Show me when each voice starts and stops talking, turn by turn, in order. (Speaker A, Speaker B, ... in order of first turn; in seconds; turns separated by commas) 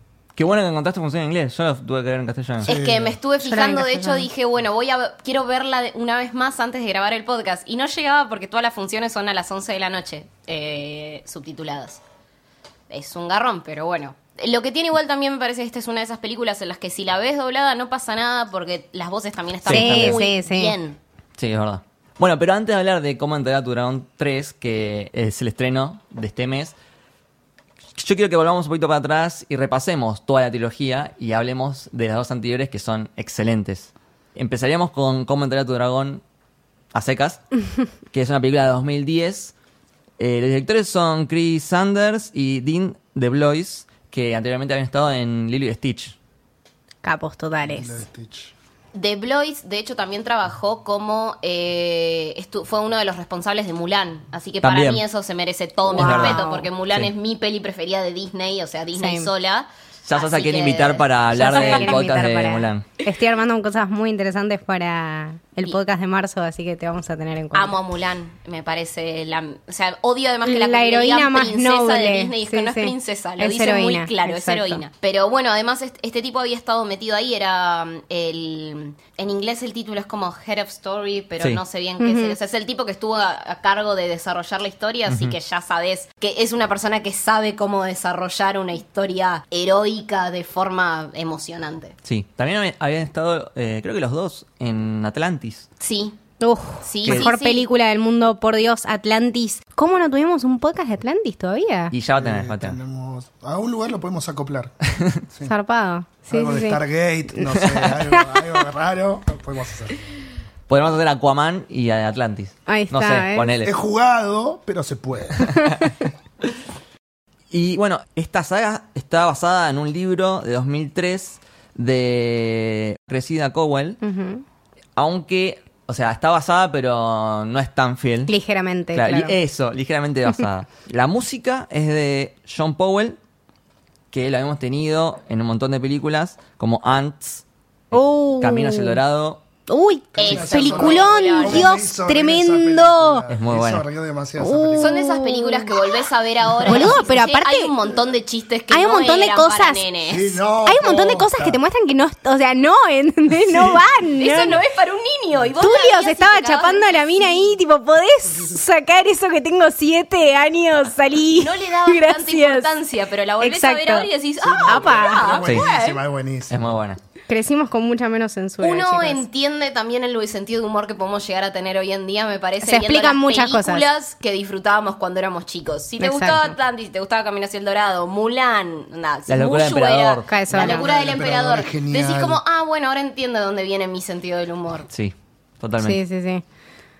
Speaker A: 0.3-2.7, Speaker B: 2.6-12.0, Speaker C: 2.6-3.2, Speaker D: 3.4-4.3, Speaker B: 12.9-21.0, Speaker A: 19.6-20.2, Speaker D: 19.7-20.8, Speaker A: 21.4-26.7, Speaker A: 27.9-36.2, Speaker A: 36.9-37.4, Speaker A: 38.1-39.5, Speaker A: 40.2-46.1, Speaker D: 47.0-48.0, Speaker C: 47.7-48.5, Speaker B: 48.9-62.0, Speaker A: 54.6-55.0, Speaker A: 55.9-57.1, Speaker D: 55.9-56.6, Speaker D: 59.0-59.3, Speaker A: 60.0-62.8, Speaker D: 61.3-67.7, Speaker B: 67.5-91.9, Speaker D: 70.4-74.8, Speaker D: 82.0-82.3, Speaker A: 85.1-85.3, Speaker A: 92.0-95.7, Speaker B: 95.8-96.2, Speaker D: 96.4-101.9, Speaker B: 96.8-97.7, Speaker A: 101.9-102.8, Speaker C: 102.2-104.7, Speaker A: 105.0-105.2, Speaker C: 105.3-105.5, Speaker D: 105.5-106.8, Speaker C: 106.3-110.1, Speaker A: 107.5-108.0, Speaker D: 108.1-108.5, Speaker A: 110.7-113.7, Speaker D: 112.7-113.5, Speaker C: 113.6-115.6, Speaker A: 115.4-115.9, Speaker A: 117.5-124.0, Speaker D: 124.0-124.4, Speaker A: 125.0-128.3, Speaker D: 128.3-129.3, Speaker A: 128.9-133.2, Speaker A: 134.1-137.4, Speaker D: 137.9-139.0, Speaker A: 138.4-139.4, Speaker D: 139.7-143.2, Speaker C: 140.1-145.1, Speaker B: 140.2-141.7, Speaker A: 143.3-143.8, Speaker D: 144.4-145.8, Speaker B: 144.8-150.4, Speaker D: 146.6-147.7, Speaker C: 146.7-146.9, Speaker D: 148.7-149.8, Speaker C: 150.1-151.6, Speaker D: 150.6-154.6, Speaker C: 153.4-153.8, Speaker B: 154.2-157.6, Speaker D: 155.6-162.8, Speaker B: 161.3-166.0, Speaker D: 163.4-164.1, Speaker C: 164.4-166.8, Speaker D: 164.6-165.3, Speaker A: 165.4-165.7, Speaker A: 166.5-167.0, Speaker D: 167.3-169.2, Speaker B: 168.6-184.9, Speaker D: 172.6-173.8, Speaker D: 176.0-176.5, Speaker A: 179.3-180.3, Speaker D: 180.3-180.9, Speaker C: 180.5-182.4, Speaker A: 184.9-186.0, Speaker D: 185.8-186.4